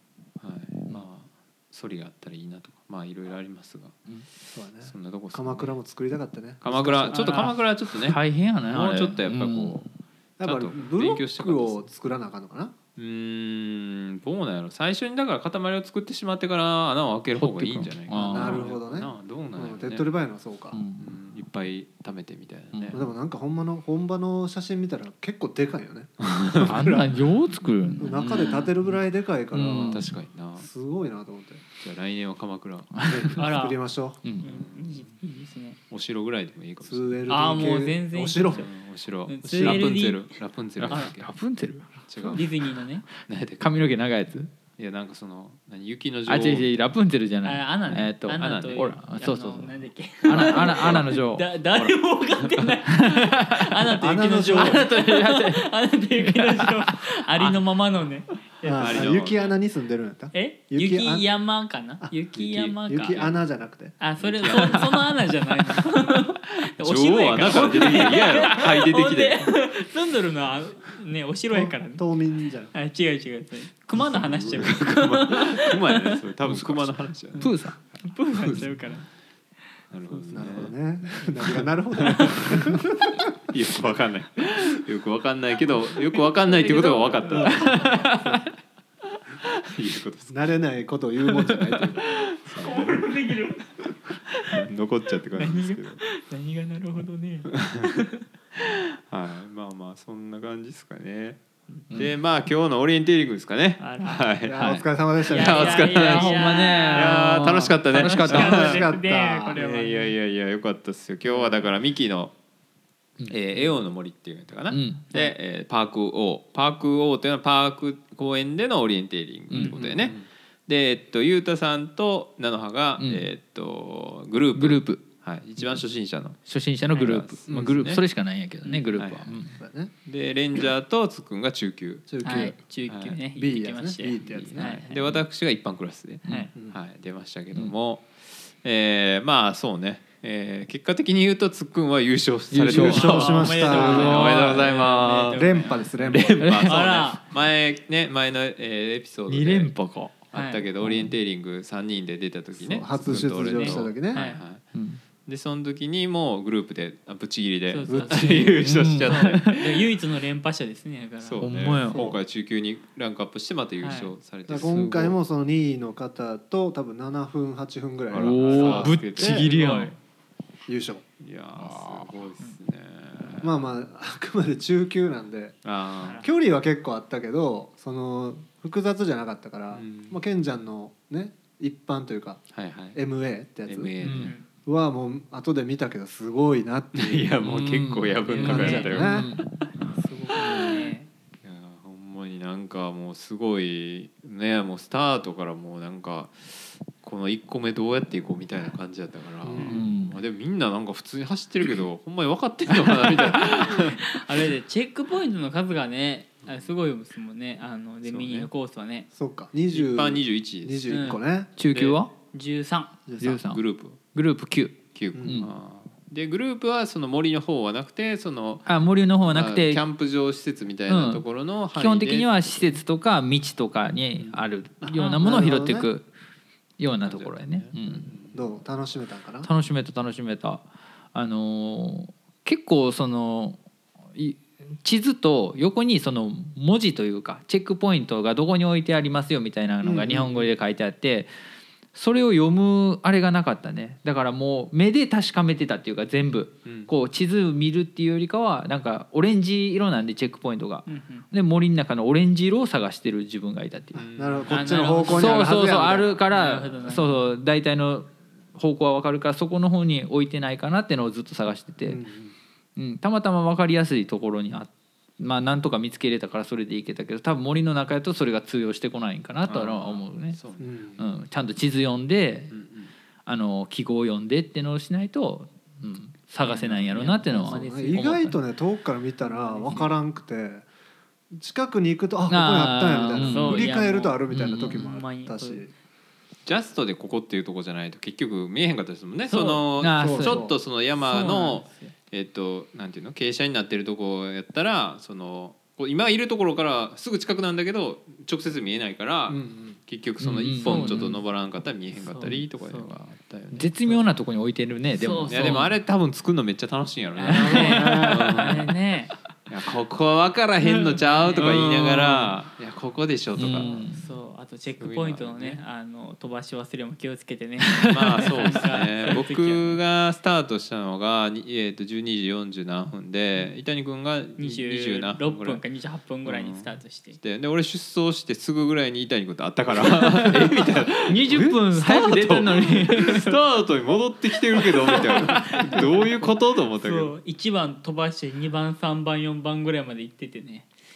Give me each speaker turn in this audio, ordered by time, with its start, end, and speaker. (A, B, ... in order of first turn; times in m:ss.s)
0:00.4-0:05.8 A
0:04.5-0:07.5 B
0:06.6-0:09.9 A
0:07.1-0:07.5 C
0:07.9-0:09.8 D
0:10.4-0:12.7 B
0:10.4-0:11.8 A
0:13.0-0:20.0 A
0:17.4-0:18.7 D
0:18.2-0:20.8 B
0:20.7-0:21.0 D
0:21.0-0:23.0 A
0:22.7-0:23.0 D
0:22.9-0:27.2 B
0:26.2-0:26.7 A
0:26.6-0:29.0 D
0:28.0-0:31.6 B
0:29.5-0:30.1 D
0:29.8-0:30.7 A
0:31.8-0:33.0 A
0:33.0-0:33.3 D
0:33.0-0:34.2 B
0:33.4-0:35.8 C
0:34.4-0:35.1 A
0:35.9-0:37.2 A
0:36.8-0:38.7 B
0:37.3-0:38.7 C
0:38.5-0:41.3 A
0:39.3-0:41.1 C
0:39.5-0:39.8 B
0:40.8-0:42.5 D
0:42.1-0:42.5 A
0:42.3-0:43.0 C
0:43.2-0:43.9 A
0:43.6-0:44.5 D
0:44.7-0:46.7 A
0:46.3-0:51.4 D
0:47.4-0:59.1 C
0:48.0-0:49.0 A
0:50.3-0:52.7 A
0:53.0-0:53.9 D
0:54.0-0:54.9 B
0:54.5-0:57.6 D
0:58.6-1:01.2 B
0:58.7-0:59.5 A
1:00.3-1:03.3 C
1:02.0-1:04.0 B
1:04.0-1:12.0 C
1:04.2-1:05.0 A
1:06.8-1:09.5 A
1:07.5-1:08.4 D
1:11.5-1:12.7 B
1:12.7-1:16.1 C
1:14.2-1:17.5 A
1:16.4-1:17.8 D
1:18.0-1:19.0 C
1:18.3-1:18.9 A
1:19.9-1:22.8 A
1:20.3-1:23.3 B
1:23.4-1:28.0 A
1:26.2-1:28.2 C
1:27.4-1:28.4 D
1:29.6-1:30.6 A
1:30.3-1:32.1 B
1:32.2-1:33.8 C
1:32.4-1:33.0 A
1:34.5-1:36.0 A
1:35.3-1:38.2 C
1:37.5-1:37.8 A
1:39.0-1:41.4 A
1:41.9-1:42.1 D
1:41.9-1:46.4 A
1:43.8-1:44.3 C
1:44.4-1:45.9 B
1:44.6-1:44.8 D
1:45.3-1:50.1 C
1:45.9-1:48.6 D
1:46.9-1:48.9 A
1:48.3-1:49.6 B
1:49.5-1:52.3 A
1:51.2-1:51.6 B
1:53.2-2:06.4 A
1:54.7-1:55.1 D
1:59.5-2:00.1 D
1:59.8-2:00.3 B
2:03.0-2:03.2 D
2:04.6-2:05.0 D
2:06.4-2:09.6 D
2:06.9-2:08.0 A
2:07.5-2:07.8 B
2:08.6-2:08.9 C
2:08.9-2:09.3 A
2:09.5-2:09.9 B
2:10.0-2:12.1 A
2:12.1-2:12.6 B
2:12.2-2:15.0 C
2:12.8-2:13.2 A
2:13.3-2:14.8 B
2:14.2-2:34.6 A
2:16.2-2:16.5 D
2:22.5-2:24.6 D
2:22.6-2:24.3 B
2:22.7-2:27.2 C
2:25.0-2:26.5 B
2:26.4-2:26.7 D
2:29.3-2:30.2 D
2:30.3-2:30.6 C
2:32.5-2:34.2 B
2:33.5-2:34.4 C
2:34.7-2:35.0 D
2:35.2-2:39.6 A
2:37.7-2:42.0 C
2:37.9-2:38.6 B
2:38.2-2:39.9 D
2:41.2-2:45.2 A
2:41.4-2:42.0 D
2:41.9-2:42.2 B
2:43.8-2:44.1 C
2:44.4-2:49.4 B
2:48.1-2:49.9 A
2:48.1-2:49.9 D
2:48.5-2:49.9 C
2:50.7-2:51.0 B
2:51.2-2:53.6 A
2:51.6-2:52.1 D
2:53.4-2:55.6 B
2:55.6-2:56.2 A
2:56.0-2:56.3 C
2:56.2-3:03.9 B
2:59.7-3:00.2 A
3:02.5-3:03.0 A
3:03.6-3:04.4 A
3:04.0-3:04.3 D
3:04.1-3:04.4 C
3:04.6-3:07.4 B
3:06.9-3:10.6 A
3:07.4-3:09.5 D
3:08.3-3:09.2 C
3:08.4-3:09.3 B
3:09.8-3:11.1 C
3:10.5-3:10.8 D
3:11.4-3:24.2 A
3:19.4-3:19.9 B
3:19.6-3:19.8 C
3:19.6-3:20.1 D
3:23.4-3:29.1 C
3:28.0-3:28.5 A
3:29.1-3:31.5 B
3:29.7-3:31.2 A
3:30.9-3:31.2 C
3:31.6-3:32.1 D
3:31.7-3:32.0 A
3:31.8-3:32.9 C
3:33.1-3:33.4 B
3:33.2-3:33.6 D
3:33.3-3:34.0 A
3:34.1-3:35.5 D
3:34.9-3:38.7 A
3:35.1-3:35.5 B
3:38.6-3:39.8 D
3:39.2-3:42.8 A
3:40.9-3:46.1 D
3:44.8-3:45.9 B
3:44.9-3:45.3 C
3:46.8-3:48.1 D
3:46.9-3:48.6 A
3:48.3-3:49.5 B
3:49.4-3:53.6 D
3:54.1-4:01.3 D
3:59.8-4:00.5 B
4:01.9-4:14.0 D
4:06.6-4:06.9 A
4:10.9-4:11.2 C
4:14.0-4:14.7 A
4:14.2-4:16.2 B
4:14.5-4:15.6 C
4:15.1-4:22.0 D
4:16.3-4:17.2 C
4:21.9-4:22.3 B
4:22.8-4:30.4 D
4:29.4-4:30.7 A
4:30.6-4:31.2 B
4:31.0-4:32.5 D
4:32.5-4:32.9 A
4:33.2-4:38.4 D
4:36.4-4:38.1 C
4:37.4-4:40.7 B
4:39.2-4:39.8 C
4:41.3-4:45.7 B
4:42.3-4:43.7 D
4:43.1-4:45.6 C
4:44.3-4:44.8 D
4:46.4-5:04.0 A
4:49.3-4:49.6 C
4:49.8-4:50.5 D
4:50.0-4:50.6 B
4:51.0-4:51.9 C
4:59.3-4:59.8 B
5:00.2-5:01.2 D
5:00.6-5:01.2 C
5:01.9-5:02.9 C
5:03.5-5:05.7 D
5:05.0-5:05.7 C
5:05.3-5:08.8 A
5:07.2-5:09.1 C
5:07.3-5:08.3 B
5:07.3-5:08.6 D
5:09.5-5:13.8 A
5:10.6-5:12.4 D
5:11.0-5:11.5 C
5:13.4-5:14.0 D
5:13.6-5:19.8 C
5:14.8-5:15.6 A
5:17.8-5:18.3 D
5:17.9-5:25.6 A
5:24.4-5:27.2 C
5:26.2-5:37.2 A
5:30.0-5:33.2 D
5:32.7-5:33.4 C
5:34.6-5:35.9 C
5:36.8-5:40.7 C